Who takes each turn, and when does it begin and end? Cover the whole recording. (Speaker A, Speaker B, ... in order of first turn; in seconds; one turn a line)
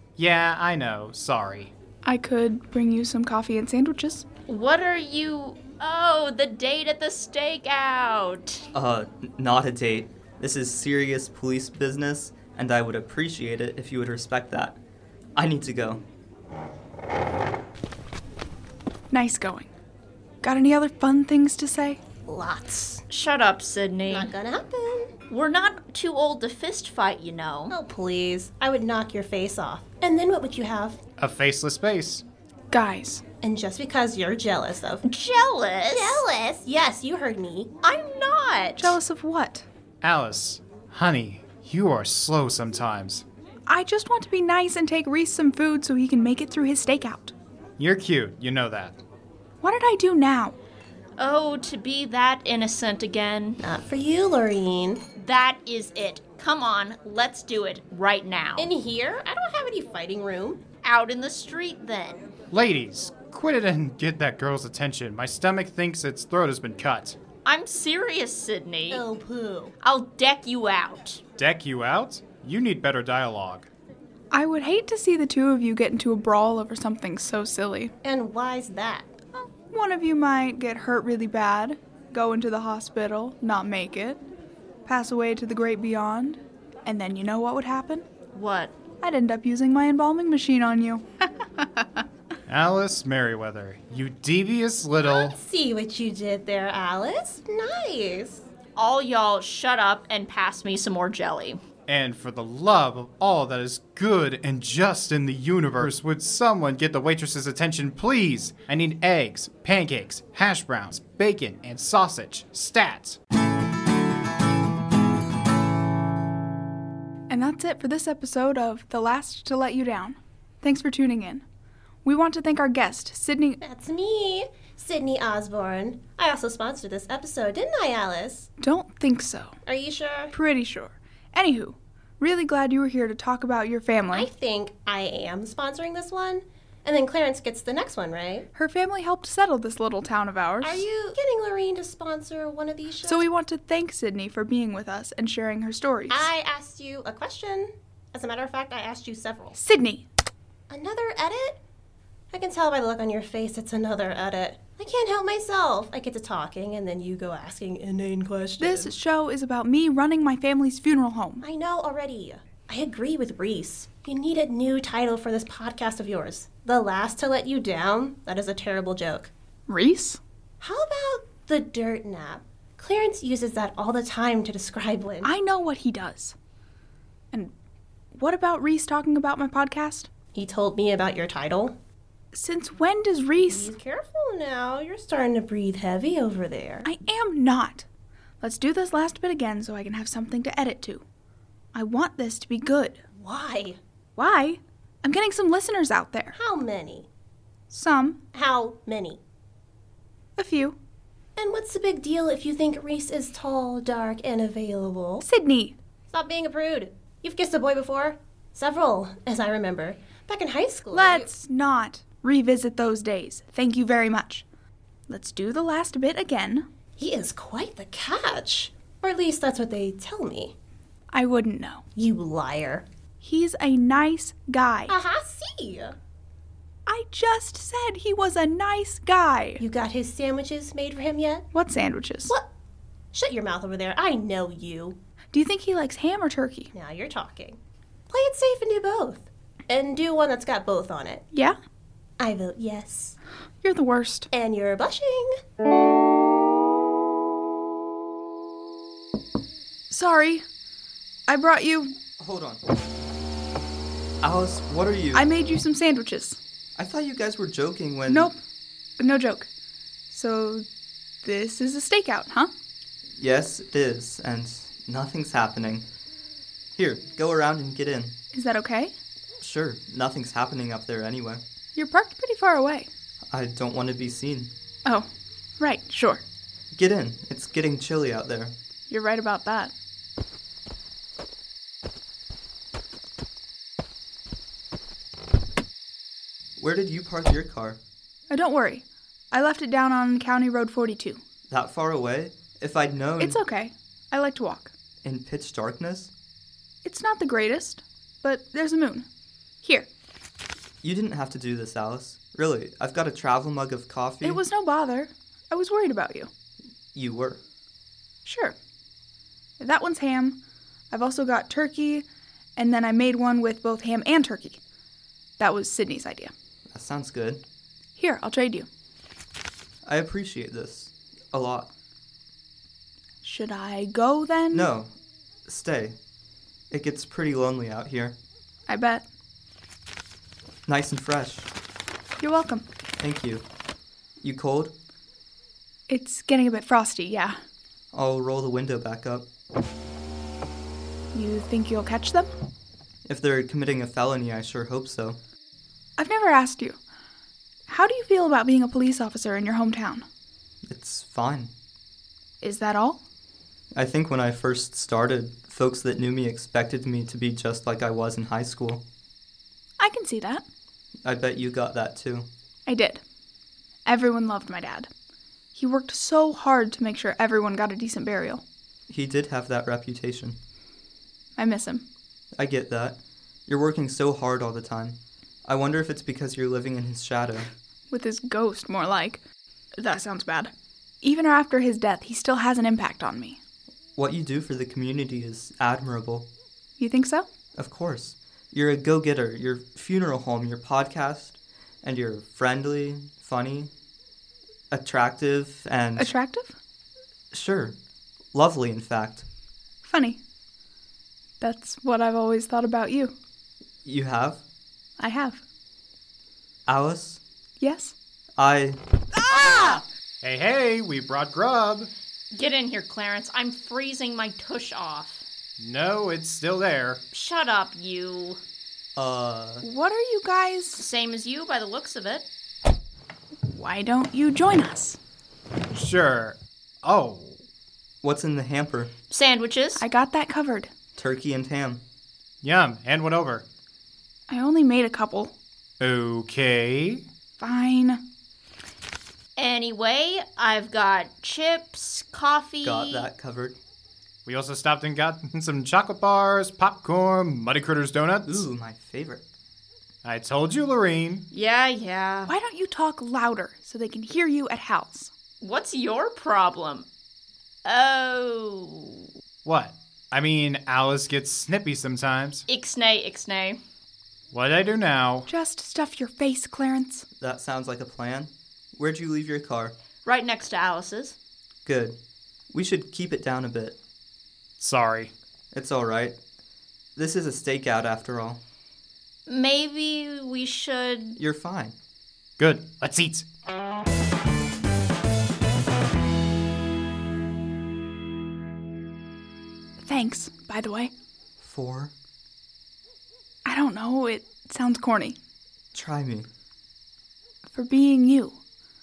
Speaker A: 0.2-1.7
Speaker B: 2.0-4.2
Speaker C: 4.5-8.6
Speaker D: 8.7-14.8
Speaker D: 15.3-16.0
Speaker B: 19.1-19.7
Speaker B: 20.4-22.0
Speaker E: 22.2-23.0
Speaker C: 23.1-24.3
Speaker E: 24.1-25.1
Speaker C: 25.3-27.7
Speaker E: 27.7-31.0
Speaker A: 31.2-32.2
Speaker B: 32.7-33.2
Speaker E: 33.4-35.0
Speaker C: 35.0-36.2
Speaker E: 35.9-39.0
Speaker B: 38.8-39.6
Speaker A: 40.0-43.2
Speaker B: 43.7-47.3
Speaker A: 47.8-49.0
Speaker B: 49.6-50.5
Speaker C: 51.2-53.6
Speaker E: 53.6-55.0
Speaker C: 55.1-58.7
Speaker E: 58.6-60.6
Speaker C: 60.8-62.2
Speaker A: 62.5-67.2
Speaker C: 67.4-69.0
Speaker E: 68.9-69.7
Speaker C: 69.8-71.2
Speaker A: 71.4-73.7
Speaker B: 74.3-77.9
Speaker E: 78.0-79.1
Speaker B: 79.7-84.2
Speaker B: 84.8-88.0
Speaker C: 88.3-88.7
Speaker B: 89.0-92.0
Speaker A: 92.5-95.3
Speaker E: 95.0-98.4
Speaker C: 98.8-101.6
Speaker A: 101.9-113.2
Speaker B: 117.3-121.4
Speaker B: 122.0-123.6
Speaker E: 123.6-128.5
Speaker B: 128.6-129.6
Speaker E: 129.7-130.3
Speaker B: 130.3-134.3
Speaker E: 134.1-138.5
Speaker B: 138.5-140.8
Speaker E: 140.6-143.2
Speaker B: 143.0-146.3
Speaker E: 146.1-149.6
Speaker B: 149.6-150.0
Speaker E: 150.7-151.6
Speaker E: 152.3-158.9
Speaker B: 158.6-161.4
Speaker E: 161.4-169.3
Speaker B: 169.7-170.2
Speaker E: 170.6-175.3
Speaker B: 175.2-176.3
Speaker B: 178.1-180.1
Speaker E: 180.3-181.8
Speaker B: 182.3-183.7
Speaker E: 183.4-186.9
Speaker B: 186.8-187.8
Speaker B: 188.4-191.0
Speaker B: 191.7-193.0
Speaker E: 193.1-193.8
Speaker B: 194.2-196.3
Speaker E: 196.3-197.1
Speaker B: 197.7-198.2
Speaker E: 198.3-199.2
Speaker B: 200.4-200.8
Speaker E: 201.3-205.2
Speaker B: 205.2-205.8
Speaker E: 206.1-211.3
Speaker B: 210.9-214.4
Speaker B: 215.1-216.7
Speaker E: 217.0-220.5
Speaker B: 221.1-221.8
Speaker E: 221.9-222.8
Speaker B: 223.2-224.9
Speaker E: 224.9-225.9
Speaker B: 226.9-229.6
Speaker E: 229.6-231.5
Speaker B: 231.5-232.3
Speaker E: 233.1-235.0
Speaker B: 235.3-236.7
Speaker E: 236.7-237.6
Speaker E: 238.1-241.2
Speaker E: 242.2-243.2
Speaker B: 243.6-244.3
Speaker E: 244.3-245.4
Speaker B: 249.9-250.4
Speaker B: 251.3-251.9
Speaker D: 252.2-252.6
Speaker D: 254.2-255.2
Speaker B: 255.1-256.4
Speaker D: 256.8-258.3
Speaker B: 258.1-258.4
Speaker B: 259.0-259.5
Speaker B: 260.1-260.6
Speaker B: 261.2-262.5
Speaker D: 263.2-265.9
Speaker D: 266.8-268.2
Speaker B: 268.3-268.9
Speaker D: 269.4-271.4
Speaker B: 271.7-272.9
Speaker D: 273.3-274.5
Speaker B: 275.6-276.2
Speaker D: 276.7-278.5
Speaker B: 278.9-279.7
Speaker D: 286.6-287.8
Speaker B: 288.3-291.2
Speaker D: 291.5-293.4
Speaker B: 293.2-294.7
Speaker D: 295.0-296.1
Speaker B: 296.8-299.1
Speaker B: 299.6-299.9
Speaker D: 300.8-304.4
Speaker B: 304.2-306.3
Speaker D: 306.9-307.4
Speaker B: 308.2-308.6
Speaker B: 309.6-314.6
Speaker B: 315.4-316.3
Speaker D: 316.7-317.4
Speaker B: 317.9-318.7
Speaker D: 319.8-321.7
Speaker B: 323.2-324.7
Speaker D: 324.5-324.9
Speaker D: 325.4-326.0
Speaker D: 326.7-328.2
Speaker B: 328.7-329.0
Speaker D: 330.7-331.5
Speaker B: 332.2-332.7
Speaker D: 333.0-333.4
Speaker D: 334.2-334.7
Speaker B: 335.9-337.4
Speaker D: 337.9-339.3
Speaker B: 341.1-342.3
Speaker D: 343.1-345.2
Speaker B: 346.0-346.8
Speaker B: 347.7-350.1
Speaker D: 350.6-351.5
Speaker B: 352.4-353.0
Speaker D: 353.7-358.8
Speaker B: 359.8-360.4
Speaker D: 361.0-362.3
Speaker B: 362.7-363.0
Speaker B: 363.9-364.9
Speaker B: 365.5-368.4
Speaker D: 368.9-370.4
Speaker B: 371.4-371.9
Speaker D: 372.3-377.5
Speaker B: 377.9-379.2
Speaker B: 379.8-383.4
Speaker D: 383.9-386.3
Speaker B: 386.8-387.3
Speaker D: 387.5-393.7
Speaker D: 394.7-396.1
Speaker B: 396.0-396.5
Speaker D: 397.3-397.8
Speaker D: 398.3-399.3
Speaker B: 399.8-400.2
Speaker B: 401.4-403.1
Speaker D: 403.8-404.4
Speaker B: 405.0-405.4
Speaker D: 406.6-407.2
Speaker B: 407.6-407.9
Speaker D: 408.4-408.8
Speaker A: 410.2-411.9
Speaker C: 412.3-415.2
Speaker A: 415.6-417.0
Speaker C: 417.1-418.4
Speaker D: 418.9-419.6
Speaker B: 419.6-420.8
Speaker C: 420.7-422.3
Speaker B: 423.4-425.0
Speaker A: 425.7-427.4
Speaker D: 428.0-428.9
Speaker C: 429.1-429.8
Speaker B: 429.8-430.7
Speaker D: 430.9-431.8
Speaker A: 432.4-433.4
Speaker B: 434.3-435.3
Speaker A: 435.8-437.1
Speaker B: 437.4-438.0
Speaker C: 439.4-443.1
Speaker D: 442.6-443.6
Speaker A: 444.2-448.5
Speaker D: 448.2-449.2
Speaker A: 450.0-451.3
Speaker C: 451.3-452.3
Speaker B: 452.3-455.1
Speaker C: 455.4-456.9
Speaker C: 457.6-459.1
Speaker A: 459.4-462.4
Speaker C: 462.5-463.6
Speaker A: 464.3-465.3
Speaker B: 465.3-467.1
Speaker D: 467.2-469.7
Speaker C: 470.0-471.1
Speaker D: 471.6-472.0
Speaker D: 472.5-473.8
Speaker A: 474.6-475.1
Speaker D: 475.5-476.2
Speaker D: 476.9-478.4
Speaker C: 479.3-481.2
Speaker D: 481.2-481.7
Speaker A: 482.4-483.2
Speaker B: 489.8-490.9
Speaker D: 491.4-491.9
Speaker B: 493.4-495.2
Speaker D: 495.7-496.3
Speaker B: 497.5-498.4